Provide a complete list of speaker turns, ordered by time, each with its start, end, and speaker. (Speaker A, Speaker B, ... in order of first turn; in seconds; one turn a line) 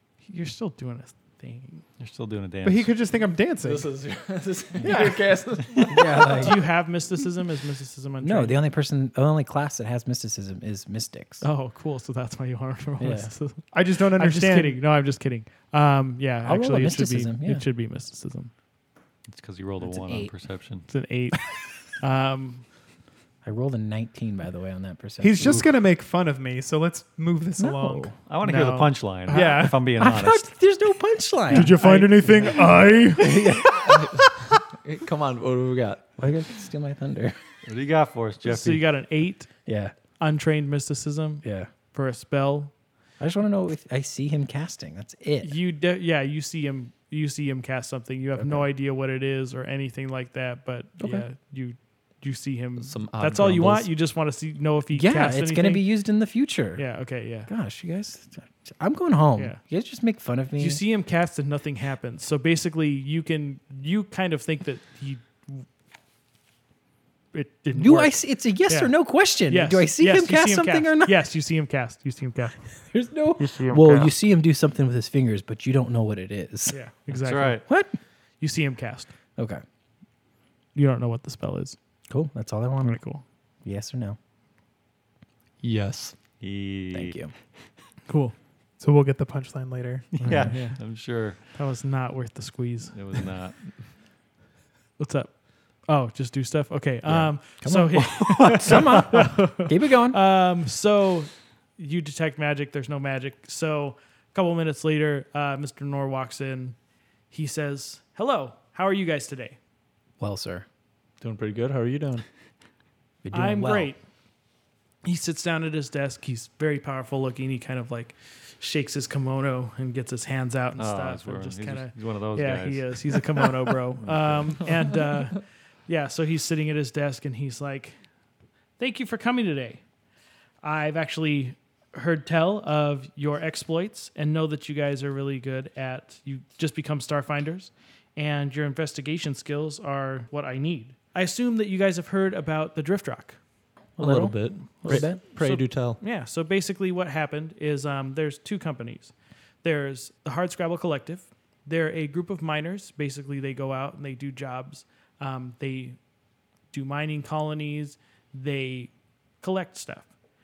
Speaker A: 0.2-1.8
Speaker B: 2.0-2.9
Speaker C: 2.6-3.9
Speaker D: 3.6-6.5
Speaker E: 5.9-6.6
Speaker A: 6.1-8.6
Speaker E: 8.2-11.4
Speaker A: 11.4-18.5
Speaker E: 13.0-13.3
Speaker C: 13.7-14.8
Speaker E: 16.4-17.6
Speaker B: 19.3-20.9
Speaker E: 19.8-20.3
Speaker A: 20.9-22.6
Speaker E: 23.4-25.6
Speaker C: 25.2-28.1
Speaker E: 27.6-28.1
Speaker B: 28.2-30.4
Speaker A: 28.4-29.7
Speaker C: 29.3-29.7
Speaker E: 29.9-31.8
Speaker C: 31.5-34.0
Speaker A: 31.5-32.6
Speaker E: 33.2-34.1
Speaker D: 33.4-36.0
Speaker E: 36.2-37.4
Speaker B: 37.6-38.8
Speaker A: 38.4-39.5
Speaker E: 39.6-39.9
Speaker A: 40.2-42.7
Speaker E: 41.4-41.7
Speaker E: 43.2-45.5
Speaker A: 45.4-55.8
Speaker E: 48.4-48.6
Speaker E: 51.0-51.2
Speaker D: 52.8-53.9
Speaker E: 54.9-56.8
Speaker A: 56.8-57.5
Speaker E: 57.5-60.8
Speaker A: 60.6-65.7
Speaker A: 67.3-68.9
Speaker E: 67.7-71.2
Speaker A: 69.5-72.7
Speaker E: 72.9-76.8
Speaker A: 76.7-77.6
Speaker B: 77.1-77.6
Speaker E: 77.7-78.0
Speaker A: 78.4-79.1
Speaker E: 79.4-79.6
Speaker A: 80.7-81.8
Speaker E: 82.1-83.0
Speaker A: 82.8-83.2
Speaker E: 83.6-84.2
Speaker D: 85.6-86.1
Speaker B: 86.4-87.2
Speaker E: 86.9-87.3
Speaker A: 88.1-88.3
Speaker C: 88.8-90.5
Speaker B: 90.2-91.4
Speaker A: 90.3-90.8
Speaker A: 91.5-93.0
Speaker B: 92.9-93.6
Speaker A: 95.0-106.8
Speaker E: 97.0-100.2
Speaker B: 98.2-99.0
Speaker A: 107.3-109.6
Speaker E: 110.2-110.7
Speaker D: 111.2-112.2
Speaker E: 113.2-113.9
Speaker A: 113.3-114.0
Speaker A: 115.0-128.0
Speaker B: 120.8-123.2
Speaker B: 124.0-124.7
Speaker A: 128.8-129.8
Speaker A: 130.6-143.4
Speaker E: 144.0-145.2
Speaker D: 144.0-146.0
Speaker A: 144.8-156.0
Speaker A: 156.7-160.1